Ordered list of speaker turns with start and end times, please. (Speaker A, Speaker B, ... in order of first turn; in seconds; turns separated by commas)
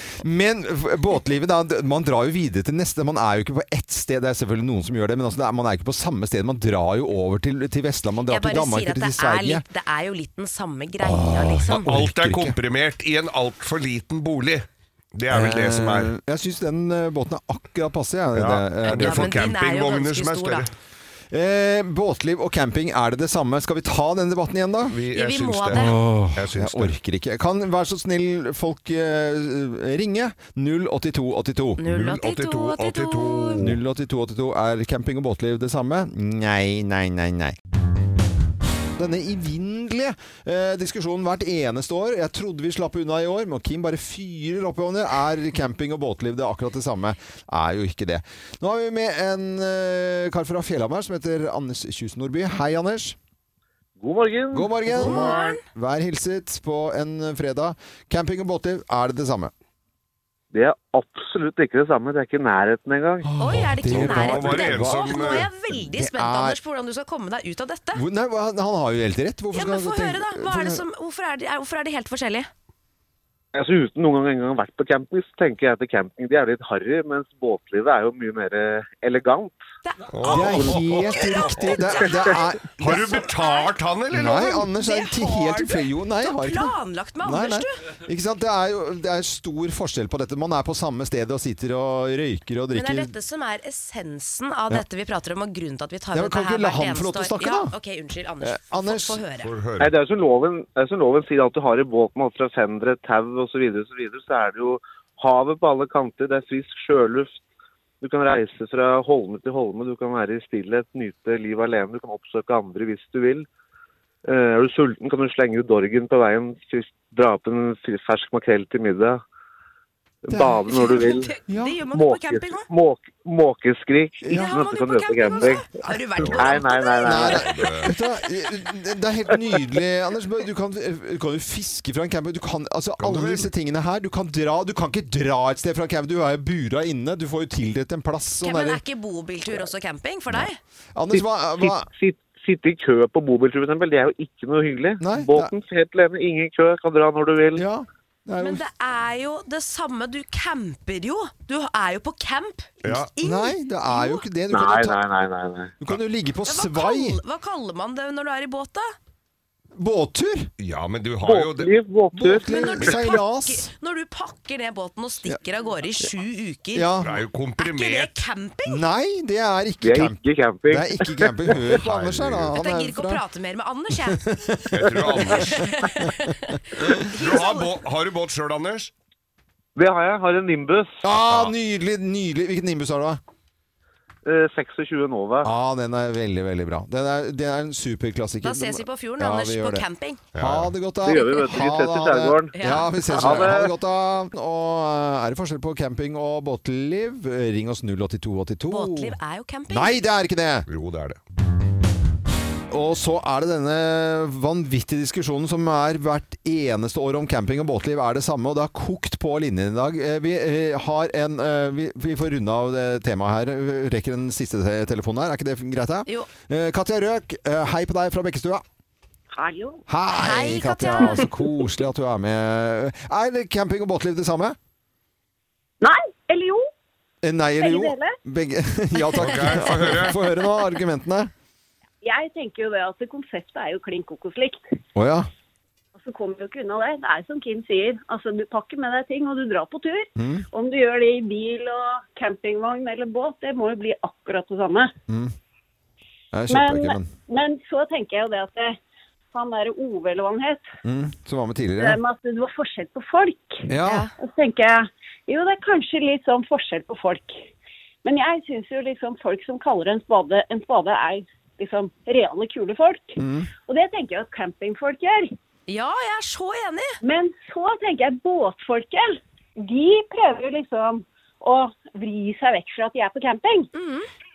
Speaker A: 0.2-9.6, Speaker B: 8.3-11.9, Speaker A: 11.0-12.6, Speaker C: 11.7-16.1, Speaker A: 15.3-19.4, Speaker C: 18.4-20.7, Speaker B: 18.9-20.7, Speaker A: 21.3-25.0, Speaker C: 24.9-26.9, Speaker B: 25.1-26.0, Speaker A: 25.7-31.8, Speaker B: 31.8-33.6, Speaker C: 31.9-33.8, Speaker A: 33.6-37.6, Speaker A: 39.0-53.2, Speaker D: 54.0-55.6, Speaker A: 54.5-59.5, Speaker B: 54.9-55.6, Speaker D: 60.5-63.3, Speaker A: 63.2-66.6, Speaker B: 63.4-68.0, Speaker C: 63.8-65.5, Speaker A: 68.0-70.8, Speaker B: 69.5-72.5, Speaker D: 73.5-79.6, Speaker B: 79.8-83.7, Speaker C: 80.1-81.1, Speaker A: 80.3-83.2, Speaker D: 80.4-80.8, Speaker C: 82.8-84.7, Speaker A: 84.1-93.1, Speaker B: 84.8-87.8, Speaker B: 92.7-99.5, Speaker A: 96.1-97.7, Speaker A: 98.4-99.2, Speaker C: 99.4-100.0, Speaker D: 99.8-107.4, Speaker D: 108.0-113.5, Speaker D: 114.2-119.2, Speaker D: 120.2-121.4, Speaker A: 120.3-120.6, Speaker B: 120.7-122.7, Speaker A: 121.5-121.8, Speaker D: 121.9-125.7, Speaker A: 124.2-124.5, Speaker B: 124.3-127.5, Speaker C: 126.2-126.6, Speaker D: 126.3-127.5, Speaker A: 127.0-138.8, Speaker C: 127.3-127.9, Speaker C: 133.0-133.5, Speaker B: 138.4-140.6, Speaker A: 140.3-141.9, Speaker D: 141.1-147.7, Speaker A: 145.0-145.5, Speaker A: 147.6-148.6, Speaker B: 148.4-154.2, Speaker C: 152.8-153.1, Speaker A: 153.2-155.0, Speaker D: 154.5-155.7, Speaker A: 155.8-157.2, Speaker B: 156.5-158.9, Speaker A: 159.8-160.5, Speaker C: 160.6-161.7, Speaker D: 161.2-162.6, Speaker A: 162.1-163.7, Speaker B: 162.4-166.9, Speaker C: 162.8-163.1, Speaker A: 166.8-167.1, Speaker C: 167.0-168.2, Speaker B: 167.6-168.9, Speaker A: 168.7-170.2, Speaker D: 169.8-171.8, Speaker A: 170.7-173.2, Speaker C: 171.8-172.6, Speaker B: 172.5-174.3, Speaker A: 174.0-176.1, Speaker C: 174.7-175.8, Speaker B: 175.3-177.7, Speaker A: 176.8-177.1, Speaker C: 177.1-178.9, Speaker D: 179.8-181.0, Speaker A: 181.0-183.2, Speaker C: 181.3-181.6, Speaker D: 184.2-185.5, Speaker A: 185.4-199.2, Speaker B: 188.4-190.2, Speaker C: 190.3-190.7, Speaker D: 191.0-193.7, Speaker B: 192.5-193.5, Speaker B: 198.7-200.0, Speaker A: 199.7-200.7, Speaker C: 200.7-201.2, Speaker A: 202.7-218.6, Speaker E: 219.3-219.8, Speaker A: 219.9-224.6, Speaker B: 220.1-221.3, Speaker E: 225.8-226.7, Speaker A: 227.2-231.3, Speaker E: 227.6-228.2, Speaker C: 229.2-230.2, Speaker E: 232.0-234.6, Speaker A: 235.0-235.3, Speaker E: 236.0-244.9, Speaker A: 240.2-240.4, Speaker A: 245.1-245.3, Speaker A: 246.3-247.1, Speaker E: 246.5-248.8, Speaker E: 249.3-250.6, Speaker A: 250.8-252.0, Speaker E: 251.8-257.5, Speaker A: 253.7-254.1, Speaker B: 253.8-254.1, Speaker E: 258.0-265.3, Speaker A: 263.2-263.5, Speaker B: 265.7-267.0, Speaker E: 267.0-273.7, Speaker B: 273.7-274.1